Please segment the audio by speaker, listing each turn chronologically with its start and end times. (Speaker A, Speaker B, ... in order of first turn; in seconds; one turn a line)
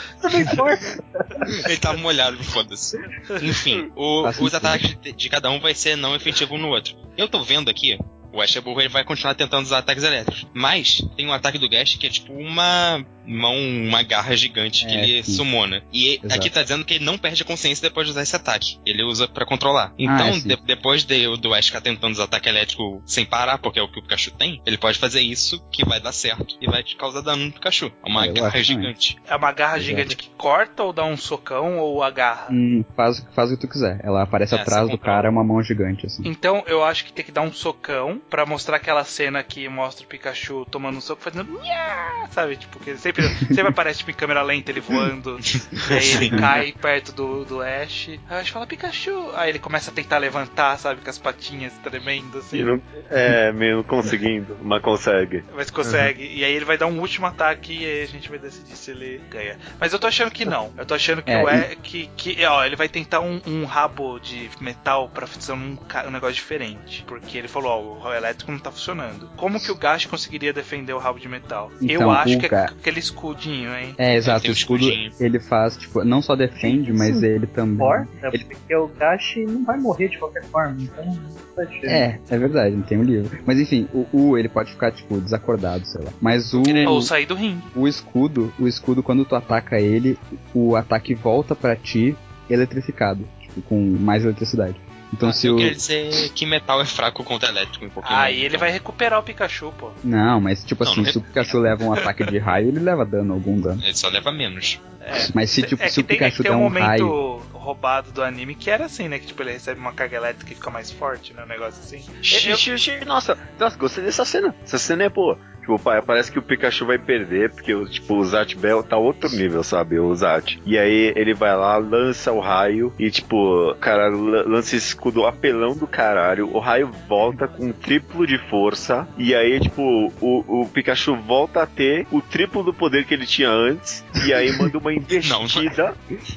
Speaker A: 0.2-1.7
Speaker B: 1.5-29.2
Speaker C: 4.2-4.9
Speaker C: 14.8-15.4
Speaker C: 16.2-16.5
Speaker C: 20.0-20.6
Speaker C: 28.1-28.9
Speaker D: 29.3-32.6
Speaker C: 29.8-30.1
Speaker C: 32.5-36.3
Speaker B: 34.5-35.4
Speaker D: 36.2-52.7
Speaker B: 45.8-46.5
Speaker E: 52.5-55.4
Speaker D: 55.5-74.0
Speaker C: 61.3-61.7
Speaker C: 71.8-72.7
Speaker C: 74.0-78.5
Speaker B: 74.2-75.1
Speaker A: 76.6-82.0
Speaker C: 81.9-87.1
Speaker B: 86.5-87.0
Speaker D: 86.8-87.7
Speaker C: 87.7-95.8
Speaker B: 95.2-98.7
Speaker D: 98.0-100.0
Speaker C: 100.0-103.8
Speaker B: 100.8-101.8
Speaker B: 103.8-104.8
Speaker D: 105.0-112.6
Speaker C: 105.3-107.2
Speaker E: 112.2-135.9
Speaker C: 134.3-134.7
Speaker B: 135.2-135.8